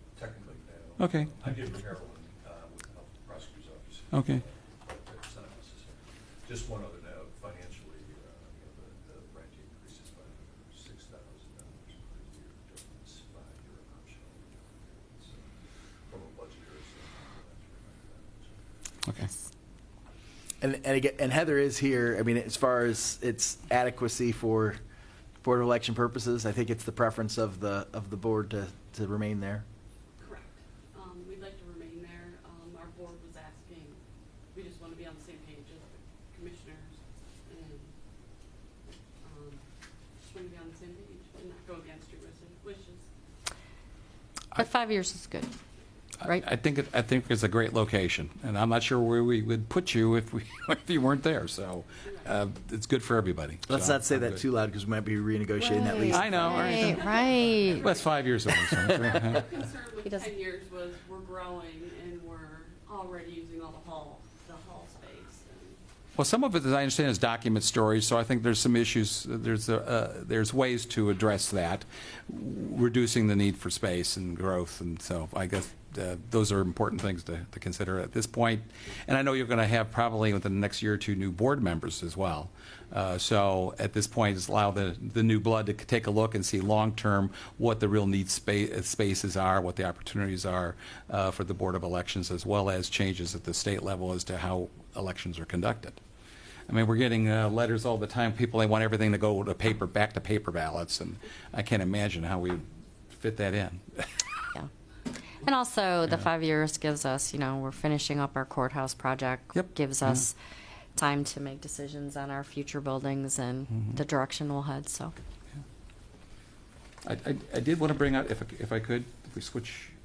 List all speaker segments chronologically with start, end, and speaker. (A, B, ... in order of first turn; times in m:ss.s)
0:00.2-0:18.6 A
0:01.0-0:01.3 B
0:04.1-0:04.4 B
0:20.6-0:24.8 C
0:25.4-0:29.7 C
0:30.2-0:34.0 D
0:34.5-0:37.9 D
0:39.2-0:39.6 D
0:40.2-0:43.1 D
0:44.6-0:45.5 E
0:46.2-0:54.4 B
0:52.0-0:52.4 D
0:53.7-0:57.0 C
0:55.6-0:57.9 E
0:56.1-0:56.9 B
0:56.3-1:05.8 D
0:57.8-0:59.5 B
1:06.2-1:36.0 B
1:36.7-1:44.1 B
1:45.4-1:50.4 E
1:49.5-1:50.3 B
1:51.0-1:55.1 E
1:57.0-2:00.0 B